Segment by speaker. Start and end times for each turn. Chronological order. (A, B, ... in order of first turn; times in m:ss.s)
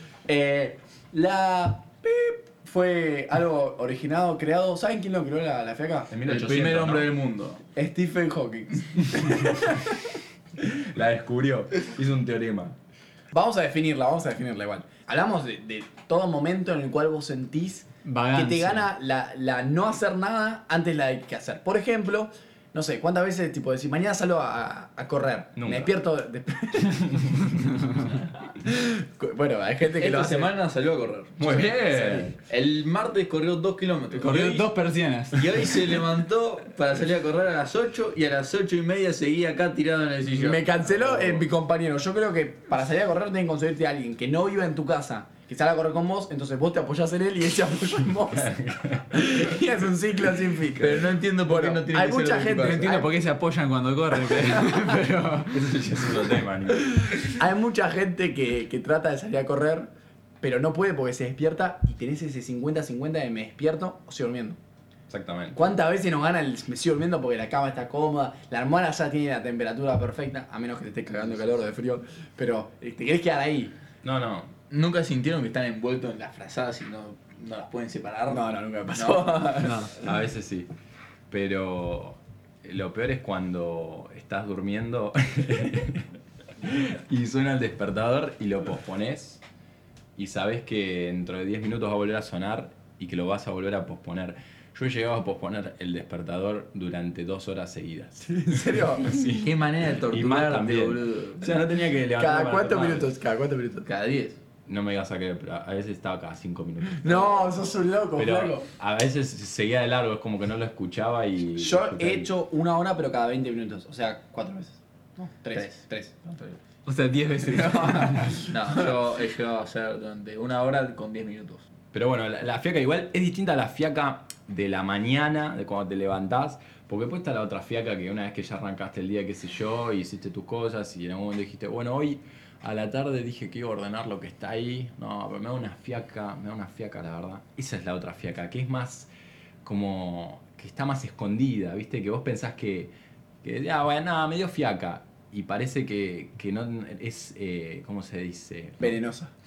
0:00.3-0:06.1 A
0:06.1-0:07.1 B
0:06.3-0:07.6 C
0:07.8-0:10.0 A
0:10.6-0:12.8 B
0:13.3-0:30.5 A
0:18.0-0:18.9 D
0:25.6-0:26.0 B
0:29.9-0:34.7 C
0:31.4-0:32.4 B
0:34.2-0:35.7 D
0:34.3-0:34.6 B
0:35.3-0:41.4 C
0:40.4-0:48.5 A
0:48.3-0:49.7 B
0:49.1-0:53.2 A
0:50.7-0:53.0 C
0:52.5-0:56.2 D
0:55.5-0:57.2 B
0:57.2-0:59.9 A
1:00.4-1:04.6 A
1:05.1-1:05.6 B
1:05.5-1:13.8 A
1:14.0-1:14.5 B
1:14.7-1:19.4 C
1:18.3-1:20.1 A
1:19.6-1:19.9 D
1:20.0-1:20.7 B
1:21.3-1:26.1 B
1:26.6-1:29.4 B
1:30.2-1:43.1 B
1:38.3-1:39.1 A
1:39.2-1:41.5 C
1:42.2-1:43.9 A
1:43.8-1:44.4 C
1:44.7-1:47.6 B
1:47.0-1:48.7 A
1:48.1-1:52.3 B
1:51.6-1:56.4 A
1:56.8-1:58.4 D
1:57.5-1:58.8 A
1:58.4-2:01.6 C
2:01.9-2:19.1 B
2:19.6-2:29.0 B
2:28.8-2:29.3 A